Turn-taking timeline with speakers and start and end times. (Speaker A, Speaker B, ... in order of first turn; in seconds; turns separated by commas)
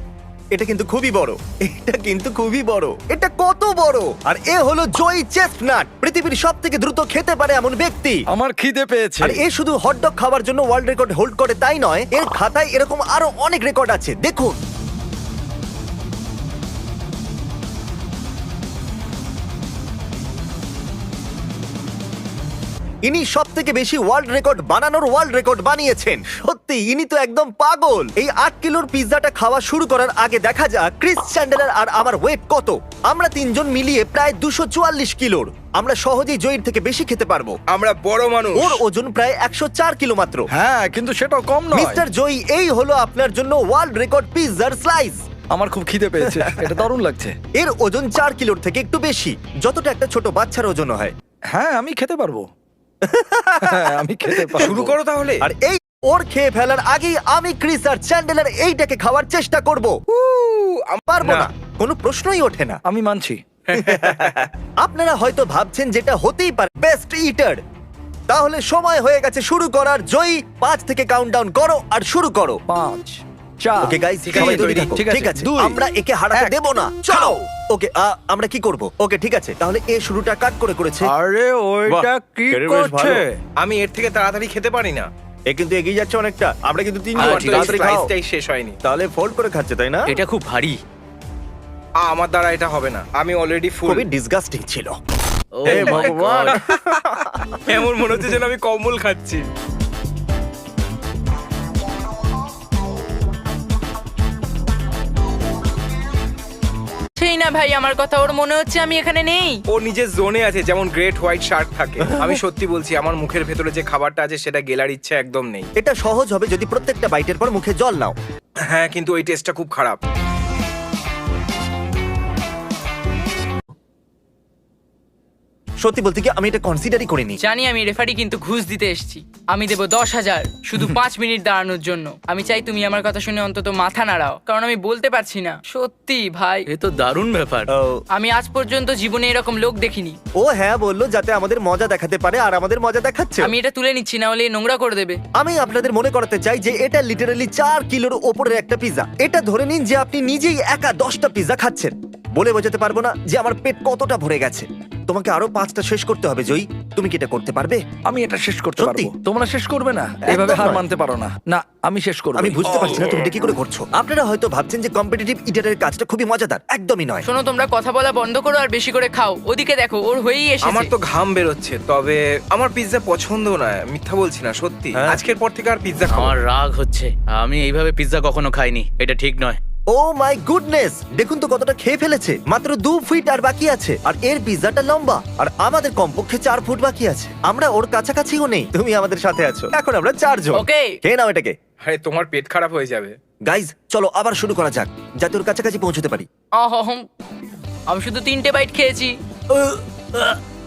Speaker A: 0.5-8.2, Speaker B: 8.3-9.4, Speaker A: 9.2-14.6, Speaker A: 23.0-37.6, Speaker C: 37.7-38.8, Speaker A: 38.5-40.5, Speaker B: 40.5-42.0, Speaker A: 41.7-45.2, Speaker B: 45.5-47.4, Speaker A: 46.2-46.8, Speaker A: 47.6-51.1, Speaker B: 51.5-52.5, Speaker A: 53.0-54.9, Speaker B: 53.6-54.9, Speaker C: 54.6-55.4, Speaker A: 55.4-60.0, Speaker C: 60.1-61.5, Speaker A: 61.1-62.8, Speaker B: 62.8-63.4, Speaker C: 63.7-64.5, Speaker A: 63.7-67.6, Speaker A: 68.3-72.6, Speaker B: 72.7-75.8, Speaker A: 73.8-81.1, Speaker C: 74.3-74.9, Speaker B: 81.2-83.2, Speaker A: 82.5-83.2, Speaker C: 83.6-85.1, Speaker A: 85.5-88.1, Speaker C: 87.2-88.8, Speaker D: 87.2-88.0, Speaker A: 88.8-90.1, Speaker D: 90.1-90.8, Speaker C: 92.0-94.1, Speaker A: 93.9-94.9, Speaker D: 95.5-96.6, Speaker C: 95.6-99.4, Speaker A: 95.7-97.7, Speaker E: 107.2-109.6, Speaker C: 109.7-115.7, Speaker A: 115.8-118.1, Speaker C: 118.7-120.0, Speaker A: 125.8-127.4, Speaker E: 127.4-136.7, Speaker D: 136.7-137.7, Speaker A: 137.7-138.0, Speaker E: 138.1-140.2, Speaker A: 140.4-143.5, Speaker E: 143.4-145.2, Speaker A: 145.3-157.8, Speaker B: 158.0-162.9, Speaker A: 158.8-159.1, Speaker A: 160.2-160.8, Speaker A: 162.4-167.2, Speaker E: 167.2-170.9, Speaker C: 170.6-176.4, Speaker D: 176.1-179.6, Speaker A: 179.9-191.5, Speaker E: 190.6-190.9, Speaker C: 191.8-193.2, Speaker A: 193.5-196.3, Speaker E: 196.6-197.1, Speaker E: 197.9-199.1